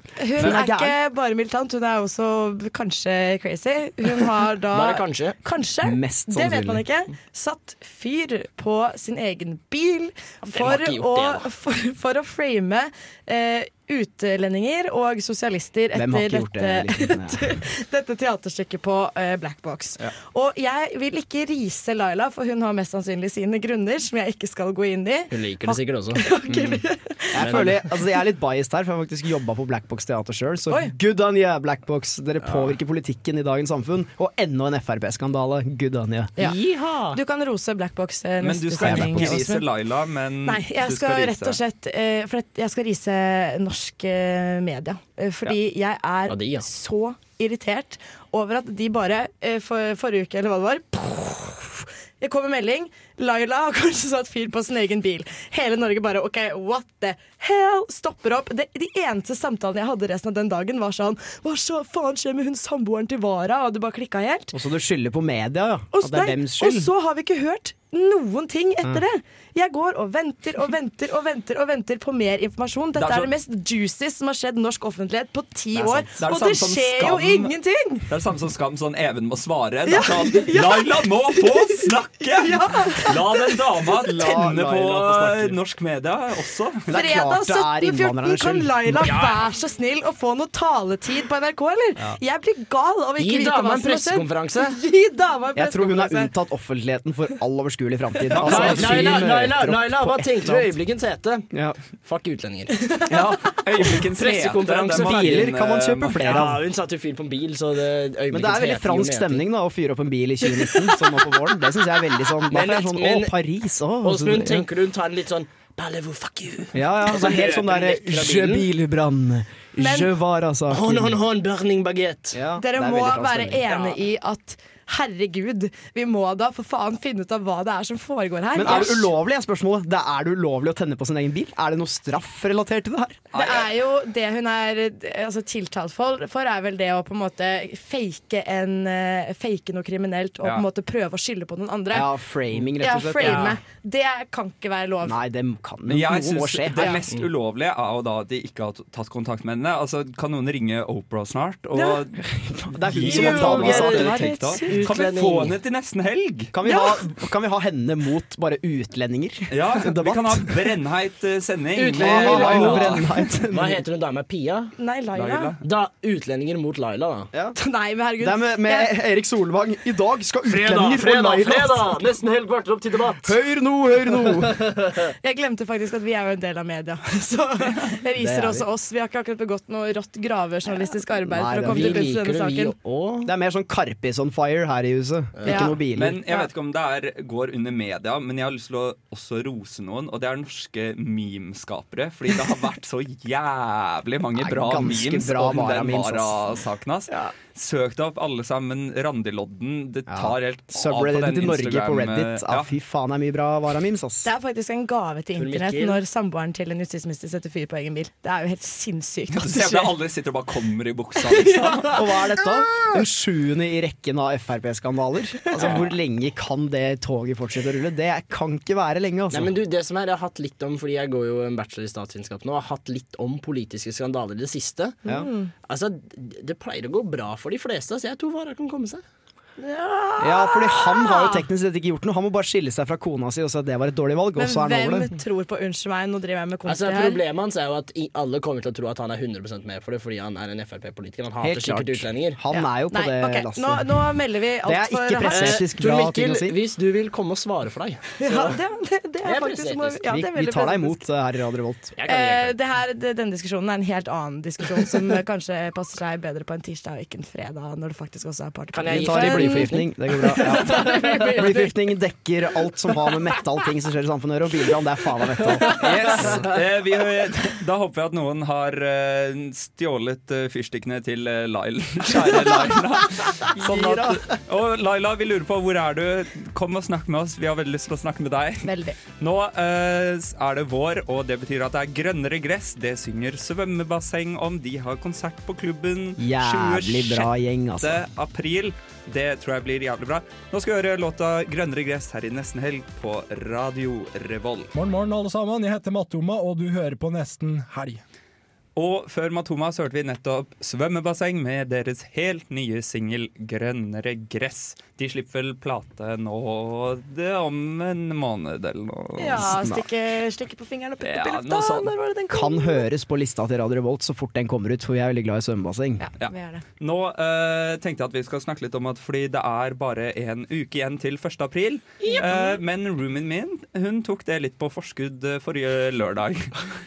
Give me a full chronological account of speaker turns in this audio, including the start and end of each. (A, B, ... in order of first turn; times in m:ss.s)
0:00.2-0:27.8 A
0:00.4-0:01.0 B
0:04.7-0:05.4 C
0:05.8-0:06.8 B
0:10.5-0:11.5 C
0:15.9-0:17.5 B
0:25.3-0:26.8 C
0:27.3-0:36.3 B
0:27.4-0:27.8 C
0:32.4-0:32.8 C
0:36.4-0:37.2 C
0:37.1-0:39.7 A
0:38.4-0:41.6 D
0:38.8-0:39.6 B
0:40.4-1:04.5 A
0:46.3-0:46.7 C
1:04.5-1:06.9 B
1:05.9-1:18.1 A
1:13.0-1:13.3 D
1:15.7-1:16.1 B
1:16.2-1:17.6 D
1:18.1-1:27.0 D
1:19.8-1:21.8 A
1:22.3-1:23.4 A
1:23.9-1:25.6 B
1:26.9-1:29.1 B
1:26.9-1:36.3 A
1:29.0-1:29.5 C
1:33.2-1:34.8 C
1:35.6-1:40.7 B
1:38.3-1:39.2 D
1:38.4-1:38.6 A
1:38.4-1:41.5 C
1:41.5-1:41.8 B
1:42.0-1:42.9 C
1:42.8-1:43.3 A
1:43.1-1:46.3 D
1:44.1-1:45.5 C
1:45.0-1:46.7 B
1:46.2-1:49.4 C
1:48.3-1:54.7 B
1:52.5-1:53.4 C
1:54.0-1:58.7 C
1:56.7-2:01.2 B
1:59.8-2:00.1 A
2:00.7-2:02.4 C
2:02.3-2:03.7 B
2:02.6-2:09.1 A
2:03.6-2:04.0 C
2:08.6-2:13.2 B
2:13.3-2:13.7 D
2:13.3-2:22.1 A
2:21.9-2:23.6 B
2:22.8-2:25.2 A
2:23.2-2:23.6 C
2:25.0-2:27.0 B
2:25.9-2:32.2 D
2:31.7-2:32.0 A
2:32.3-2:34.7 B
2:32.8-2:36.5 D
2:33.0-2:35.6 C
2:33.1-2:34.9 A
2:36.5-2:40.7 B
2:36.6-2:37.0 A
2:39.5-2:43.3 D
2:41.8-2:44.7 C
2:42.0-2:43.8 B
2:44.8-2:45.6 A
2:45.1-2:45.6 D
2:45.6-2:47.3 C
2:47.6-2:48.9 A
2:48.2-2:52.0 B
2:50.4-2:53.4 C
2:53.2-2:54.7 B
2:55.2-3:02.8 A
2:58.2-2:58.6 B
3:01.3-3:02.2 B
3:01.5-3:03.3 C
3:03.2-3:06.2 B
3:05.4-3:05.7 C
3:05.4-3:06.5 A
3:05.9-3:22.7 D
3:14.4-3:16.4 B
3:20.1-3:24.3 B
3:24.2-3:29.9 A
3:25.4-3:26.0 C
3:29.3-3:32.0 D
3:31.2-3:32.0 A
3:31.9-3:39.5 B
3:35.6-3:35.8 A
3:35.6-3:35.9 D
3:39.3-3:45.0 C
3:45.1-3:45.5 A
3:45.7-3:49.0 C
3:49.6-3:51.4 A
3:50.2-3:55.1 B
3:54.4-3:57.2 A
3:56.7-4:02.4 C
4:01.4-4:04.0 B
4:02.5-4:05.7 A
4:04.6-4:06.6 B
4:05.3-4:08.6 C
4:08.2-4:11.0 A
4:09.2-4:10.2 C
4:10.1-4:11.9 B
4:12.0-4:12.6 C
4:12.1-4:21.7 A
4:18.7-4:21.7 C
4:18.9-4:26.4 B
4:25.7-4:54.7 D
4:33.6-4:34.2 B
4:38.6-4:39.0 A
4:46.2-4:48.0 B
4:54.7-4:58.0 E
4:58.8-5:09.6 D
5:09.2-5:12.8 A
5:11.0-5:11.9 D
5:12.3-5:16.0 B
5:16.0-5:16.6 A
5:16.2-5:26.6 D
5:22.0-5:22.6 A